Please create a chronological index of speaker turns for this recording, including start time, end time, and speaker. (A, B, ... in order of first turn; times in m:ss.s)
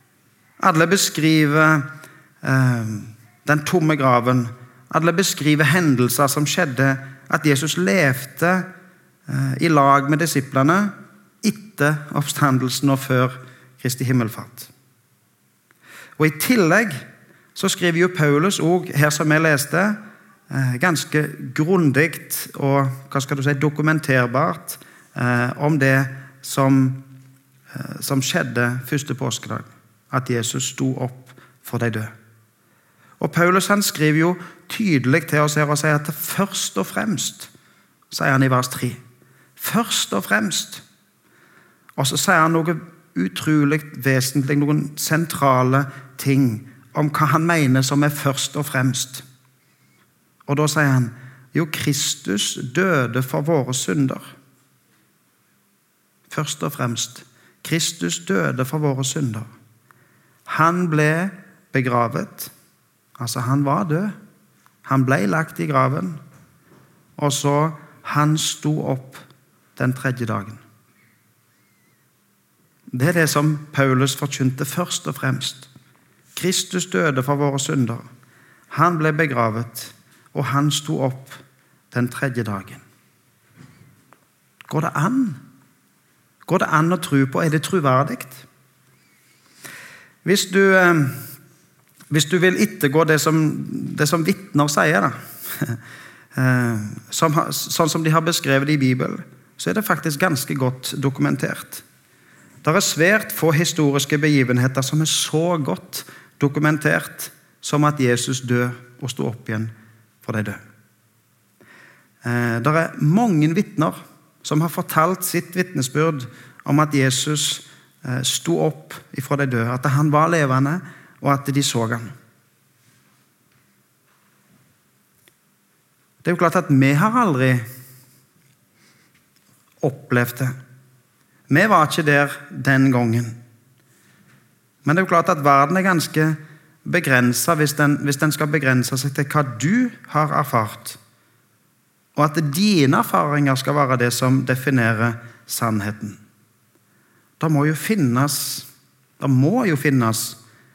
0:00.6-0:01.8 A
0:02.4-0:08.7 A
0:09.3-0:14.7 A
0:16.2-0:17.0 A
0:17.5-0:20.0 A
0:20.5-0:27.0 A
0:27.7-0:32.1 A
0:33.2-0:37.5 A
0:38.1-0:39.0 A
0:39.6-0:40.8 A
0:42.0-0:49.2 A
0:50.5-0:54.3 A
0:56.3-0:59.5 A
1:00.4-1:02.5 A
1:03.2-1:04.1 A
1:04.8-1:06.2 A
1:07.2-1:09.2 A
1:09.8-1:10.6 A
1:12.9-1:15.7 A
1:16.3-1:18.0 A
1:18.7-1:22.8 A
1:24.7-1:25.4 A
1:26.4-1:28.4 A
1:30.2-1:31.2 A
1:32.1-1:35.8 A
1:36.3-1:41.8 A
1:42.6-1:50.6 A
1:52.2-2:02.1 A
2:06.2-2:07.6 A
2:09.8-2:10.5 A
2:11.5-2:13.4 A
2:14.8-2:21.0 A
2:22.2-2:26.2 A
2:27.4-2:28.7 A
2:29.2-2:30.4 A